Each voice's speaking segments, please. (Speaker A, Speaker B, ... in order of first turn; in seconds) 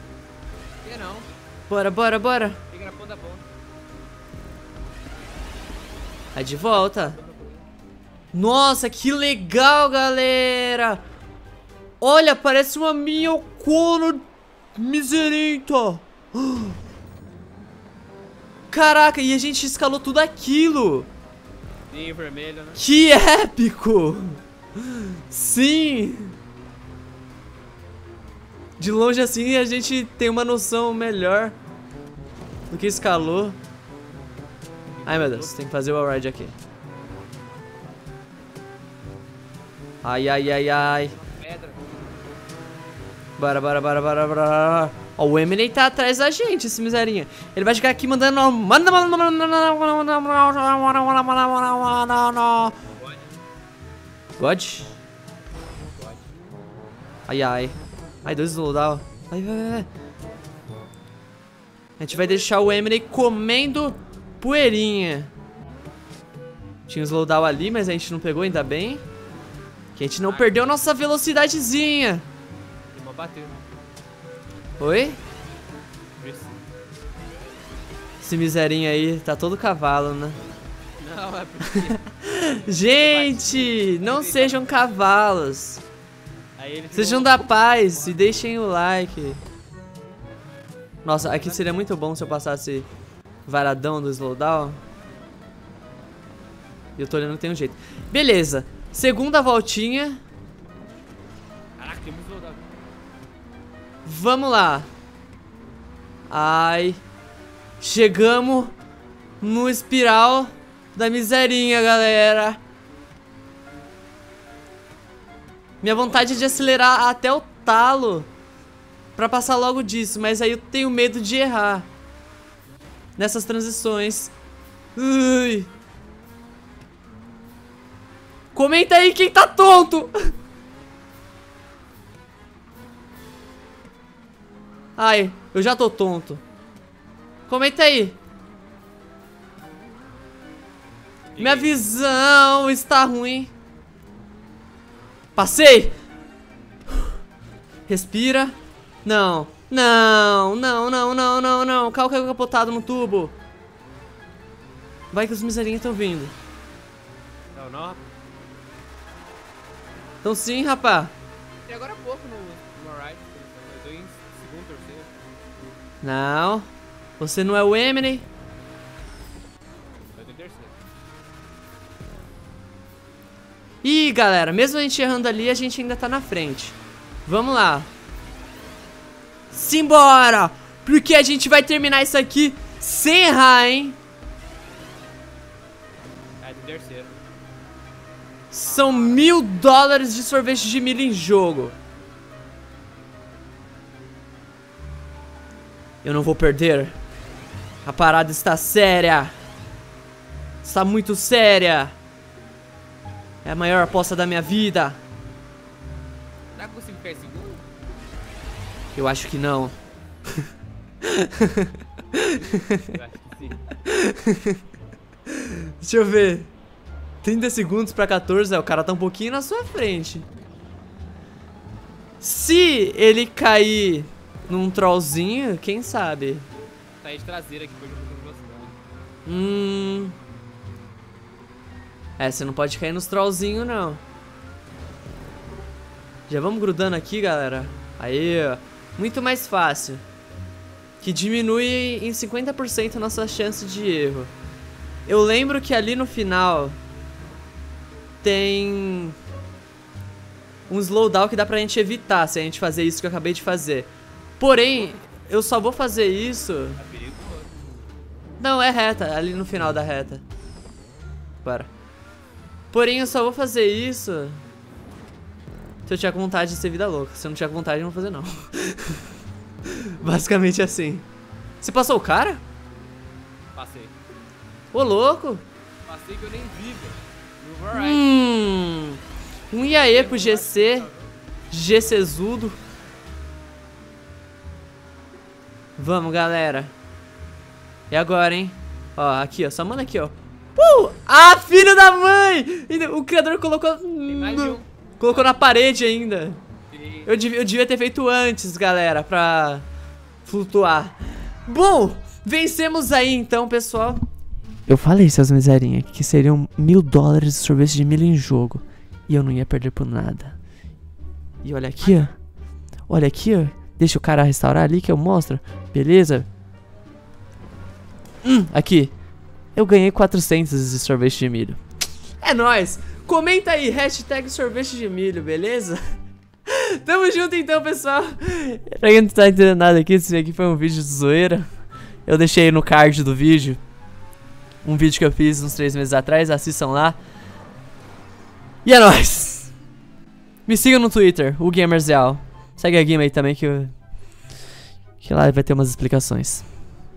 Speaker A: 0.8-1.3, 2.7-3.4, 6.7-7.6, 21.9-22.8, 34.9-35.6, 41.1-41.8, 53.0-53.4, 56.0-56.3, 62.1-62.9, 70.2-70.6, 72.9-73.6, 76.2-76.6, 81.0-84.8, 86.6-88.3, 91.2-91.9, 101.8-102.7, 115.9-116.6, 141.3-141.8, 157.5-158.0, 161.7-165.1, 170.1-170.7, 186.4-187.2, 188.6-189.3, 206.5-207.6, 212.2-213.6, 227.0-228.7, 256.8-257.8, 273.5-273.9, 275.9-278.1, 279.6-281.1, 294.0-295.3, 296.7-297.1, 311.8-312.1
Speaker B: 1.7-2.6, 6.3-7.2, 8.3-11.0, 12.0-14.2, 14.7-16.8, 18.7-21.1, 22.8-26.3, 28.8-31.6, 32.7-33.6, 35.0-36.5, 40.0-41.1, 43.4-52.8, 54.4-55.0, 57.3-59.9, 62.0-65.3, 66.9-69.0, 69.9-72.2, 74.8-75.2, 78.2-80.4, 81.8-85.8, 86.9-89.4, 91.0-92.9, 93.5-94.8, 97.0-100.2, 104.0-104.9, 106.3-107.0, 107.8-108.7, 109.4-112.6, 115.8-118.3, 119.2-121.9, 123.2-124.3, 125.0-125.7, 128.5-130.1, 135.0-136.4, 137.5-138.2, 141.4-143.5, 145.3-145.9, 147.9-153.3, 155.1-156.3, 160.2-161.1, 166.0-166.7, 167.2-168.2, 173.8-177.9, 179.5-184.0, 188.5-191.7, 196.0-196.9, 197.8-199.3, 200.6-201.9, 203.4-205.0, 208.9-209.7, 211.0-212.9, 213.8-214.6, 215.3-216.5, 217.2-220.3, 222.2-226.5, 229.2-230.2, 232.2-234.0, 236.3-240.0, 241.0-244.3, 245.1-246.8, 248.2-249.2, 250.7-256.8, 258.4-260.2, 261.4-261.7, 262.7-264.4, 265.9-269.0, 270.0-271.1, 271.6-272.4, 274.7-275.4, 277.7-279.0, 279.5-280.9, 281.5-282.6, 285.8-286.7, 287.9-296.4, 297.0-299.6, 300.2-304.0, 304.7-310.4, 311.4-312.1, 312.9-316.3, 318.2-318.9, 319.5-321.6, 322.2-325.8, 326.5-331.4, 332.1-333.6, 334.6-337.0, 338.6-339.5, 340.4-343.7, 345.0-346.5